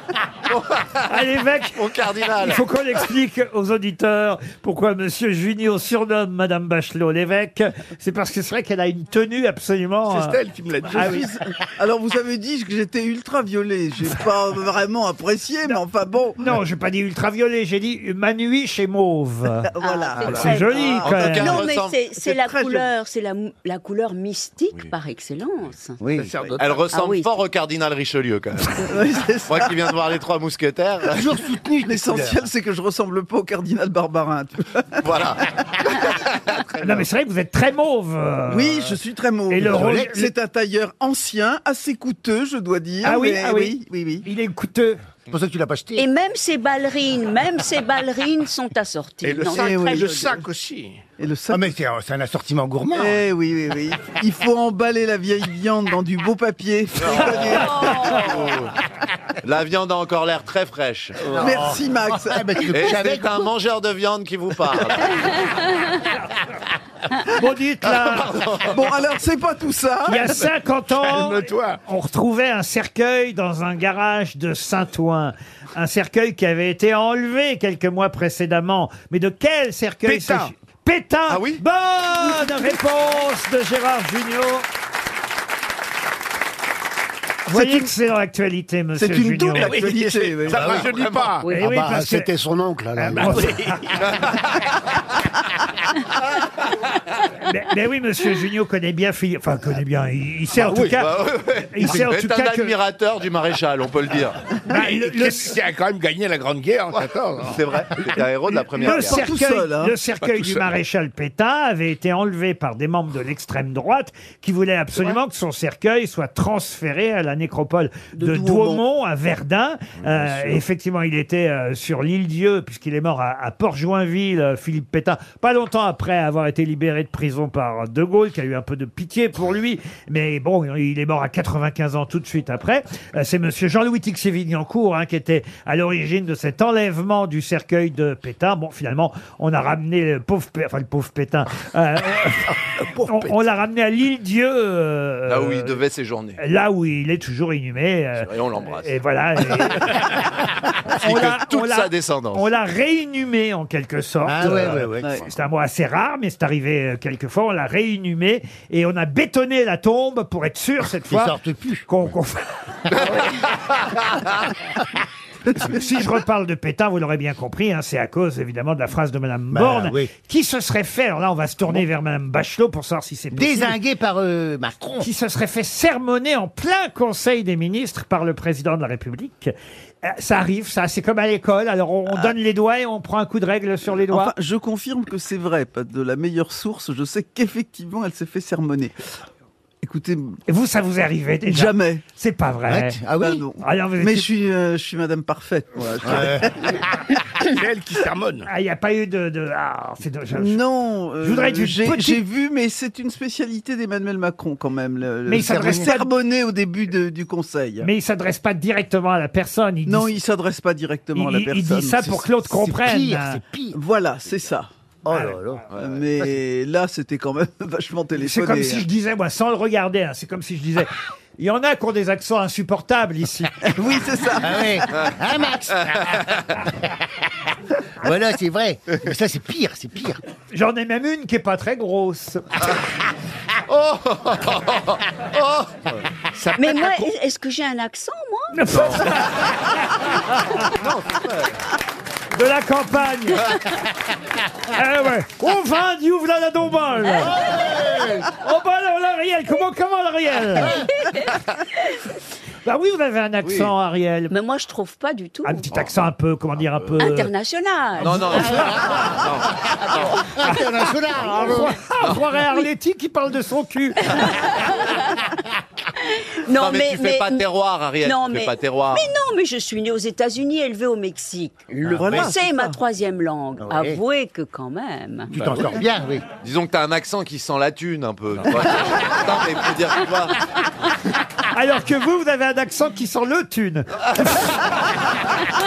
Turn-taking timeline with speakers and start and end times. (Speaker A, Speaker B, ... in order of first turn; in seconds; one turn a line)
Speaker A: 0.5-1.1
Speaker B: 1.1-1.8
Speaker A: 1.8-2.6
Speaker B: 2.4-10.4
Speaker C: 10.1-11.2
Speaker D: 10.9-16.5
Speaker B: 10.9-11.3
Speaker B: 16.4-19.7
Speaker D: 19.7-21.6
Speaker E: 19.8-26.0
Speaker B: 20.2-21.6
Speaker A: 20.9-22.0
Speaker D: 22.1-22.9
Speaker F: 26.0-26.3
Speaker C: 26.1-26.9
Speaker A: 26.6-28.9
Speaker E: 26.9-27.3
Speaker D: 28.9-30.0
Speaker A: 29.5-31.2
Speaker F: 31.1-32.4
Speaker D: 31.8-35.1
Speaker A: 35.0-37.0
Speaker B: 36.8-39.0
Speaker D: 38.5-44.2
Speaker B: 39.5-40.3
Speaker F: 39.6-40.1
Speaker B: 43.0-45.0
Speaker F: 45.3-46.1
Speaker E: 46.0-50.4
Speaker C: 49.2-51.0
Speaker D: 49.5-50.0
Speaker D: 51.2-51.7
Speaker F: 51.5-53.2
Speaker D: 52.9-58.2
Speaker A: 57.0-58.7
Speaker E: 57.4-58.5
Speaker A: 59.4-61.4
Speaker D: 61.3-62.7
Speaker F: 61.3-63.5
Speaker A: 62.7-65.4
Speaker B: 67.3-68.4
Speaker A: 67.9-68.8
Speaker D: 68.7-70.4
Speaker B: 70.1-84.7
Speaker C: 70.9-71.8
Speaker C: 80.0-80.5
Speaker A: 81.3-81.6
Speaker B: 87.5-89.8
Speaker D: 87.5-87.9
Speaker D: 89.0-90.7
Speaker C: 89.6-91.5
Speaker A: 90.7-91.2
Speaker B: 91.5-92.3
Speaker G: 91.6-93.6
Speaker B: 93.0-93.9
Speaker C: 93.2-94.2
Speaker A: 94.0-94.6
Speaker B: 97.4-101.2
Speaker A: 100.6-104.4
Speaker B: 101.7-102.8
Speaker B: 104.7-105.5
Speaker C: 104.7-107.6
Speaker A: 107.4-109.3
Speaker D: 108.5-110.0
Speaker B: 108.8-145.8
Speaker C: 110.2-110.7
Speaker D: 118.1-118.8
Speaker C: 142.9-143.4
Speaker A: 145.3-146.4
Speaker B: 146.4-150.1
Speaker A: 148.2-148.9
Speaker A: 150.9-152.5
Speaker B: 151.0-161.3
Speaker F: 154.3-155.2
Speaker F: 161.1-161.8
Speaker B: 161.9-162.5
Speaker A: 163.0-164.2
Speaker B: 165.5-173.8
Speaker F: 169.5-170.1
Speaker F: 173.3-175.1
Speaker B: 175.0-184.3
Speaker D: 184.1-188.9
Speaker D: 189.8-190.4
Speaker B: 190.5-193.0
Speaker D: 191.5-192.0
Speaker F: 192.7-193.4
Speaker D: 193.2-196.9
Speaker B: 193.6-194.3
Speaker F: 196.1-196.5
Speaker C: 197.4-198.5
Speaker B: 198.5-200.6
Speaker D: 200.3-207.9
Speaker B: 201.2-202.2
Speaker B: 205.3-206.1
Speaker F: 205.3-205.9
Speaker B: 207.8-210.1
Speaker D: 209.9-212.3
Speaker B: 211.2-213.4
Speaker F: 212.5-213.8
Speaker D: 213.7-214.7
Speaker F: 215.1-215.7
Speaker B: 215.1-215.4
Speaker A: 215.7-216.0
Speaker D: 215.8-218.8
Speaker B: 218.2-223.8
Speaker D: 223.6-224.9
Speaker F: 224.4-226.9
Speaker F: 228.0-230.2
Speaker B: 230.5-232.4
Speaker A: 233.7-236.0
Speaker C: 236.5-236.9
Speaker E: 236.6-238.6
Speaker B: 238.5-239.4
Speaker A: 238.7-239.0
Speaker B: 240.2-240.6
Speaker A: 240.8-241.6
Speaker B: 242.3-243.6
Speaker B: 244.7-247.4
Speaker F: 247.4-248.2
Speaker B: 248.3-250.8
Speaker B: 252.7-254.3
Speaker A: 253.4-253.7
Speaker E: 254.3-255.7
Speaker B: 255.4-257.3
Speaker E: 257.0-259.1
Speaker A: 258.0-260.2
Speaker B: 258.3-258.7
Speaker F: 260.3-261.8
Speaker B: 261.2-264.3
Speaker E: 266.2-267.4
Speaker A: 266.5-269.1
Speaker E: 268.0-275.3
Speaker F: 271.7-272.3
Speaker D: 271.9-272.8
Speaker F: 273.6-274.0
Speaker F: 275.3-276.2
Speaker A: 276.4-280.4
Speaker B: 281.5-284.6